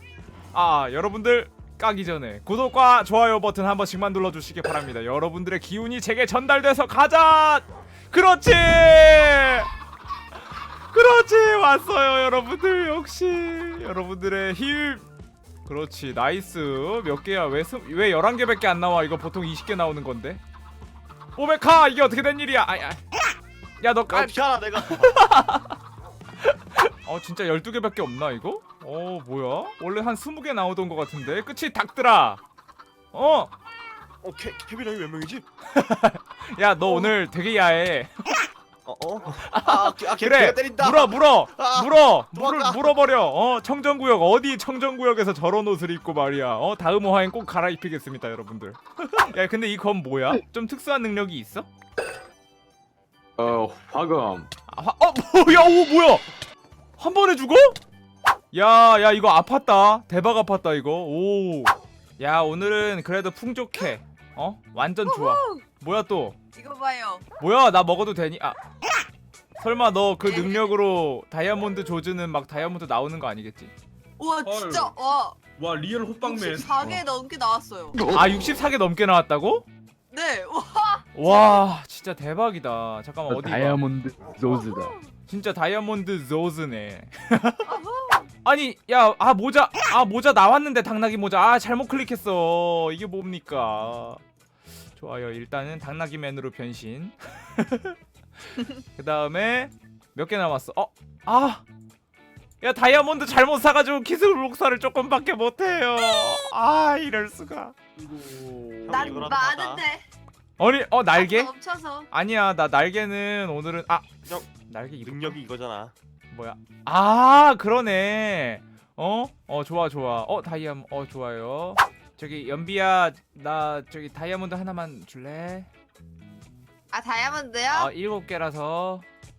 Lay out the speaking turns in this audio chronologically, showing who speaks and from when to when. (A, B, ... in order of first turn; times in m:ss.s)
0:00.5-0:09.7 A
0:10.9-0:15.0 A
0:15.6-0:20.4 A
0:21.4-0:23.0 A
0:23.8-0:25.8 A
0:24.1-0:25.2 B
0:26.4-0:32.4 A
0:33.1-0:33.5 A
0:34.2-0:35.4 B
0:35.7-0:38.5 A
0:36.9-0:37.1 B
0:38.8-0:43.0 B
0:39.4-0:51.7 A
0:53.4-0:54.5 C
0:54.7-0:56.2 A
0:57.0-0:57.8 A
0:58.5-1:06.4 A
1:05.0-1:05.6 D
1:06.5-1:07.2 D
1:07.4-1:08.6 A
1:09.6-1:13.7 A
1:10.2-1:10.7 D
1:14.2-1:15.4 D
1:14.4-1:14.9 E
1:15.5-1:16.9 E
1:16.2-1:18.0 D
1:18.0-1:18.4 C
1:18.1-1:19.6 A
1:20.1-1:21.1 D
1:21.1-1:23.8 A
1:23.3-1:24.9 C
1:24.5-1:24.9 D
1:25.3-1:27.7 A
1:27.6-1:28.3 D
1:28.4-1:34.2 A
1:35.0-1:38.0 A
1:38.9-1:41.6 A
1:42.6-1:47.8 A
1:48.0-1:49.2 E
1:48.8-1:49.8 B
1:48.9-1:50.0 D
1:50.6-1:51.5 A
1:51.1-1:52.1 D
1:52.1-1:55.4 A
1:55.0-1:55.9 B
1:56.3-2:05.7 A
2:06.9-2:07.9 D
2:07.7-2:09.0 A